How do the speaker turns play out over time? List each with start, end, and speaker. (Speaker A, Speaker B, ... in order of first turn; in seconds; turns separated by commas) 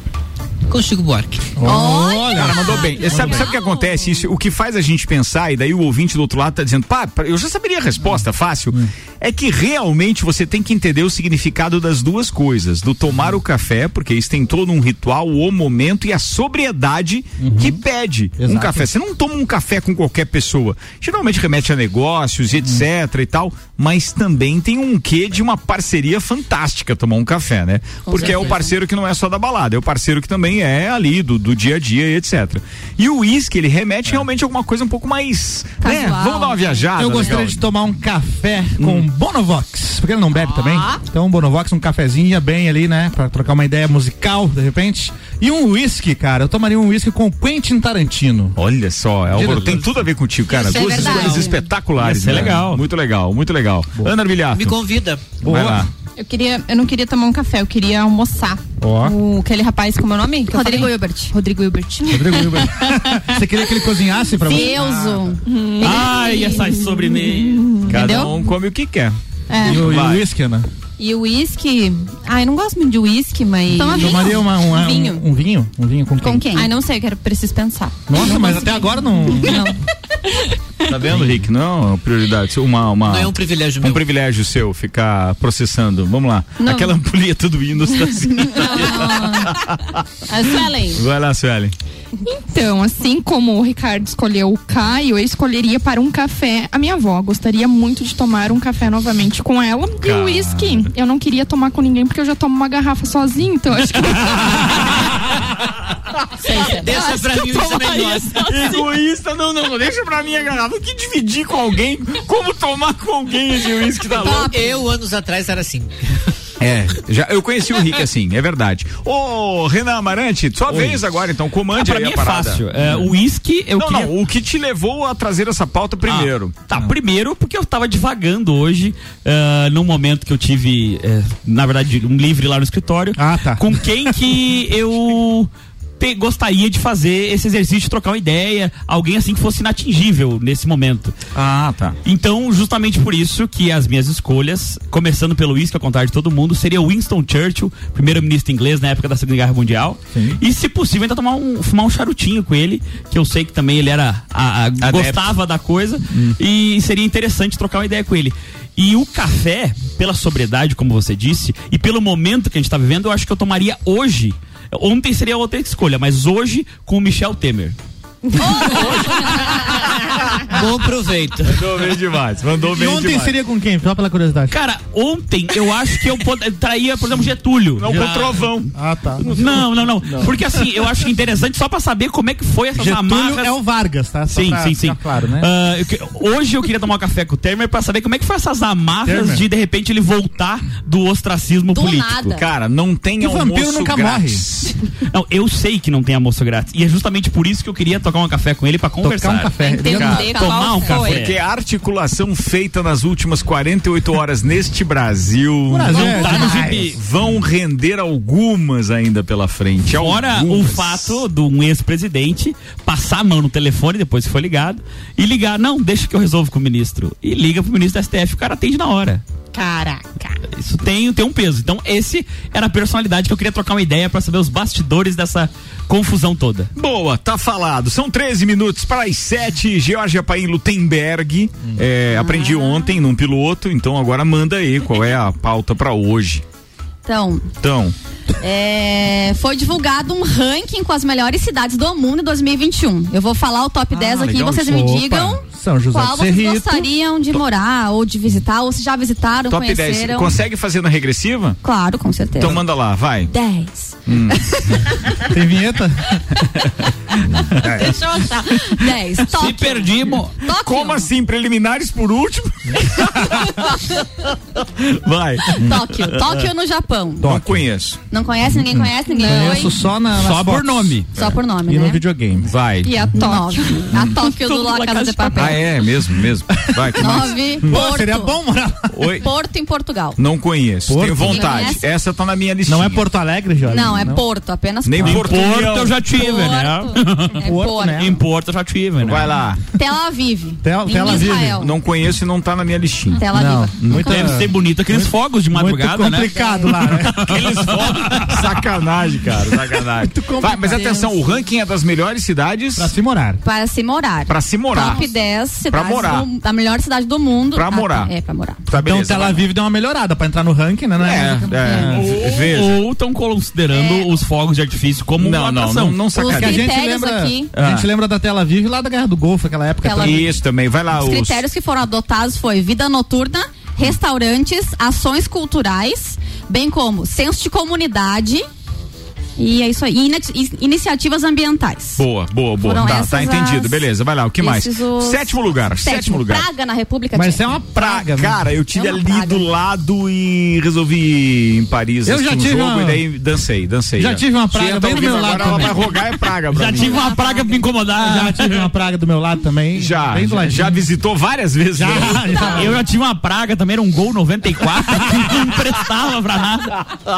Speaker A: 0.7-1.5, Speaker B: 1.6-3.4, Speaker C: 1.6-4.1, Speaker D: 2.3-37.6, Speaker B: 17.4-17.8, Speaker B: 18.4-18.9, Speaker C: 28.0-28.7, Speaker C: 35.8-36.9, Speaker B: 37.0-48.5, Speaker D: 38.8-39.1, Speaker D: 48.5-54.8, Speaker B: 49.3-49.9, Speaker A: 49.4-49.7, Speaker A: 50.5-51.5, Speaker C: 50.5-51.6, Speaker E: 52.0-52.8, Speaker A: 54.5-55.3, Speaker B: 55.4-55.9, Speaker D: 55.4-55.9, Speaker F: 56.2-63.4, Speaker B: 58.8-59.2, Speaker C: 60.5-61.3, Speaker B: 62.1-65.3, Speaker C: 64.5-65.4, Speaker G: 65.5-66.6, Speaker E: 65.8-67.7, Speaker F: 65.8-66.6, Speaker F: 67.8-68.5, Speaker D: 67.9-70.3, Speaker F: 69.5-69.9, Speaker B: 69.6-70.7, Speaker F: 71.0-75.2, Speaker C: 73.7-74.4, Speaker B: 74.0-76.5, Speaker C: 76.2-76.7, Speaker F: 76.4-79.8, Speaker B: 78.1-79.6, Speaker D: 80.9-91.7, Speaker A: 83.0-84.0, Speaker C: 86.6-86.9, Speaker C: 88.3-89.5, Speaker F: 90.3-91.0, Speaker G: 92.3-104.9, Speaker D: 100.0-100.9, Speaker A: 106.4-108.5, Speaker D: 108.4-114.6, Speaker C: 114.1-114.8, Speaker A: 114.1-116.2, Speaker D: 116.6-123.1, Speaker E: 120.7-121.0, Speaker E: 121.7-124.1, Speaker D: 123.8-126.6, Speaker E: 126.0-141.2, Speaker B: 133.2-133.8, Speaker D: 141.3-142.0, Speaker E: 142.0-167.8, Speaker D: 154.8-155.3, Speaker C: 168.4-169.5, Speaker A: 170.4-171.6, Speaker D: 171.4-173.4, Speaker B: 172.6-174.6, Speaker E: 174.5-178.5, Speaker D: 177.8-178.7, Speaker B: 178.0-179.3, Speaker E: 179.2-183.5, Speaker D: 179.2-180.4, Speaker B: 182.8-185.5, Speaker E: 184.3-192.4, Speaker B: 189.0-189.4, Speaker C: 191.7-192.5, Speaker D: 192.3-194.7, Speaker B: 193.2-194.4, Speaker E: 195.1-201.4, Speaker B: 199.0-200.3, Speaker F: 199.6-201.2, Speaker D: 199.9-200.3, Speaker C: 200.2-201.0, Speaker D: 201.0-211.2, Speaker B: 205.7-206.9, Speaker E: 205.9-207.0, Speaker C: 206.2-206.7, Speaker E: 209.9-219.2, Speaker F: 219.5-220.3, Speaker E: 220.5-226.7, Speaker D: 226.7-236.4, Speaker C: 232.1-232.9, Speaker C: 237.0-237.5, Speaker D: 237.6-237.9, Speaker C: 238.4-250.3, Speaker D: 243.9-244.9, Speaker B: 244.6-246.9, Speaker D: 249.4-251.6, Speaker C: 251.6-252.6, Speaker D: 252.3-253.3, Speaker C: 253.3-254.0, Speaker D: 254.1-254.4, Speaker B: 255.3-256.1, Speaker B: 257.6-258.0, Speaker C: 258.5-261.1, Speaker E: 259.3-260.4, Speaker D: 260.5-263.4, Speaker D: 264.8-266.2, Speaker C: 265.5-267.3, Speaker B: 267.2-267.6, Speaker D: 267.2-268.0, Speaker C: 268.1-269.7, Speaker B: 268.5-271.0, Speaker G: 269.3-269.6, Speaker E: 270.1-271.1, Speaker D: 271.1-271.4, Speaker C: 271.1-272.0, Speaker B: 271.6-272.5, Speaker D: 272.4-273.0, Speaker G: 272.8-273.9, Speaker C: 273.1-275.7, Speaker E: 274.1-275.6, Speaker D: 275.3-277.8, Speaker B: 276.5-278.9, Speaker C: 277.0-278.4, Speaker D: 278.9-279.3, Speaker C: 279.2-280.2, Speaker D: 280.2-283.1, Speaker B: 280.9-281.6, Speaker C: 281.2-281.9, Speaker B: 282.6-284.2, Speaker C: 283.6-285.2, Speaker D: 284.8-286.0, Speaker E: 285.0-289.3, Speaker C: 286.1-288.1, Speaker B: 287.4-288.1, Speaker D: 289.0-289.6, Speaker C: 289.7-291.7, Speaker B: 290.6-291.6, Speaker D: 291.1-293.3, Speaker C: 293.1-294.4, Speaker B: 293.3-297.5, Speaker D: 293.8-294.1, Speaker E: 293.9-298.3, Speaker C: 296.3-296.8, Speaker D: 297.2-302.9, Speaker B: 299.8-301.3, Speaker B: 302.8-303.4, Speaker C: 303.4-308.6, Speaker D: 304.3-306.3, Speaker D: 307.5-308.1, Speaker D: 308.7-309.5, Speaker B: 308.7-312.1, Speaker D: 311.0-312.8, Speaker C: 311.6-311.9, Speaker E: 311.9-316.1, Speaker C: 313.7-314.1, Speaker D: 315.2-316.8, Speaker C: 316.1-317.5, Speaker B: 316.2-320.3, Speaker C: 319.8-320.4, Speaker D: 320.0-321.4, Speaker C: 320.9-328.4, Speaker C: 329.4-332.1, Speaker D: 332.0-336.5, Speaker C: 332.6-333.9, Speaker C: 334.4-337.6, Speaker B: 337.1-338.5, Speaker D: 337.7-347.1, Speaker C: 338.7-339.4, Speaker B: 342.0-343.0, Speaker B: 344.0-345.9, Speaker E: 346.5-348.7, Speaker C: 346.7-347.6, Speaker B: 347.9-350.8, Speaker D: 349.7-352.7, Speaker B: 351.7-352.8, Speaker E: 352.4-356.8, Speaker B: 354.9-355.4